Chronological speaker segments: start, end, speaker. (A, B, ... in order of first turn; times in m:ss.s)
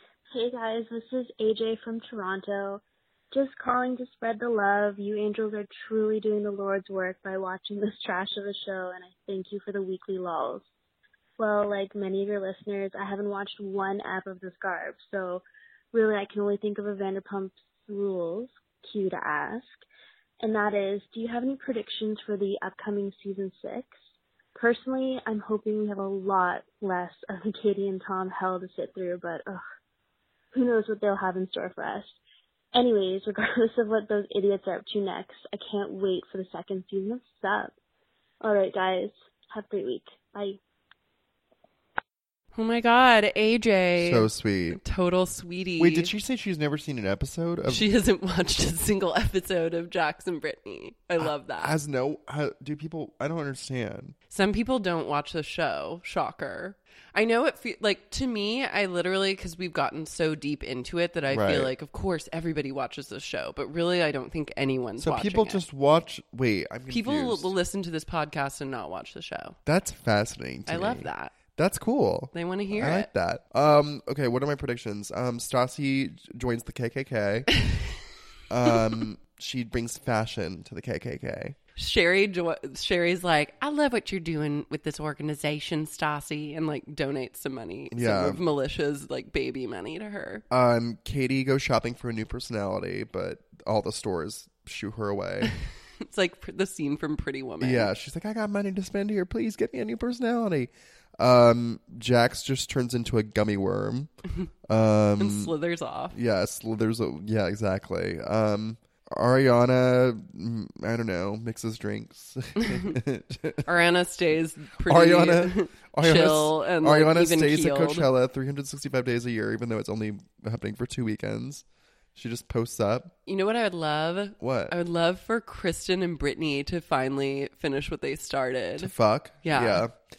0:00.3-0:10.6 A
0:11.4-0:19.8 A
0:20.4-0:24.0 A
0:24.6-0:29.6 A
0:30.5-0:32.2 A
0:32.7-0:37.7 A
0:38.4-0:40.6 A
0:42.5-0:46.1 B
0:44.0-0:44.8 C
0:45.8-0:47.9 C
0:47.6-0:51.8 B
0:51.2-0:54.2 C
0:54.3-1:05.6 B
1:01.3-1:01.7 C
1:05.0-1:07.5 C
1:06.9-1:09.6 B
1:09.6-1:17.5 C
1:10.7-1:11.3 B
1:12.3-1:13.1 B
1:18.5-1:21.6 C
1:21.8-1:30.4 B
1:27.9-1:28.4 C
1:30.5-1:35.5 C
1:36.0-1:37.9 B
1:37.6-1:44.1 C
1:44.7-1:45.5 C
1:45.2-1:46.2 B
1:46.1-1:53.7 C
1:52.6-1:53.0 B
1:53.6-1:58.1 B
1:54.8-2:03.1 C
2:03.2-2:09.8 B
2:04.4-2:04.7 C
2:08.8-2:09.9 C